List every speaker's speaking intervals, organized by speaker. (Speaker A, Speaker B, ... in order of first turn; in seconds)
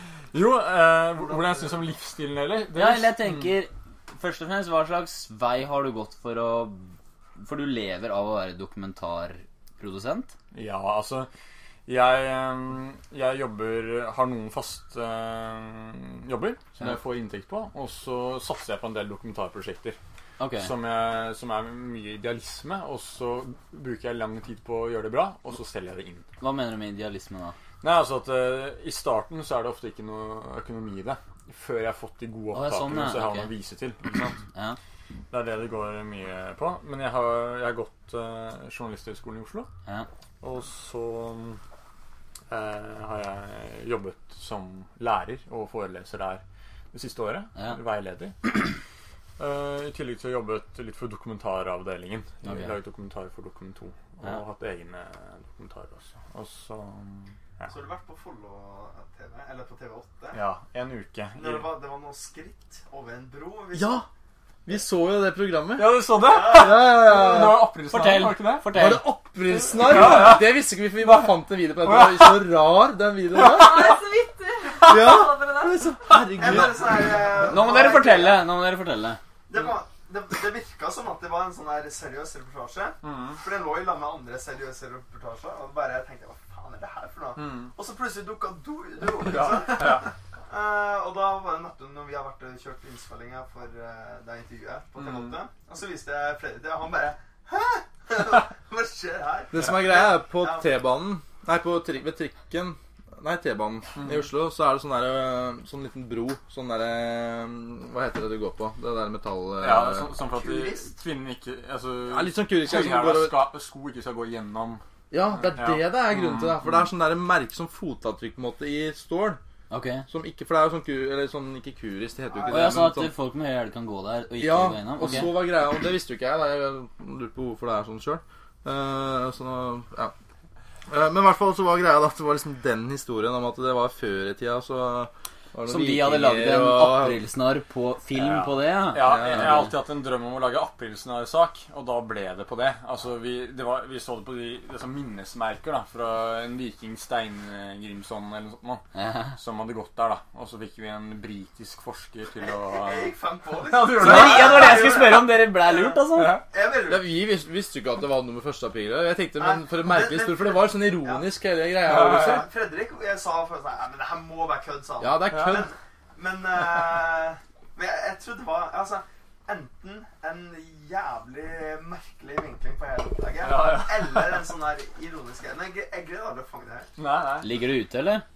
Speaker A: 0.3-3.5, 10.5-11.3, 11.9-20.0, 20.6-26.2, 27.8-34.4, 35.3-39.7, 40.4-41.6, 42.5-48.7, 49.4-57.7, 60.3-61.7, 65.7-68.9, 69.5-71.3, 71.8-72.4, 83.0-83.4, 87.3-87.7, 89.2-90.1, 95.0-95.3, 104.0-104.2, 109.6-114.8, 115.4-116.5, 138.1-148.8, 149.3-155.0, 161.9-162.3, 165.3-165.6, 173.4-174.4, 177.0-177.5
Speaker B: 2.7-10.3, 20.4-20.7, 26.4-27.6, 32.5-33.5, 52.5-52.7, 67.9-69.0, 77.4-79.2, 119.7-120.0, 122.5-125.4, 135.7-139.7, 148.9-149.3, 153.9-156.4, 177.4-178.2
Speaker C: 57.6-60.4, 61.4-64.0, 66.2-66.8, 76.4-78.4, 79.5-100.7, 110.3-110.9, 152.4-155.9, 156.5-157.1, 159.4-161.3, 161.9-176.9
Speaker D: 63.7-64.0, 64.7-67.7, 68.7-74.0, 74.8-77.1, 99.5-110.1, 112.1-113.5, 115.1-119.4, 120.1-123.1, 124.4-130.1, 130.9-137.2, 139.0-139.7, 156.8-162.5, 165.0-165.7
Speaker E: 73.4-75.9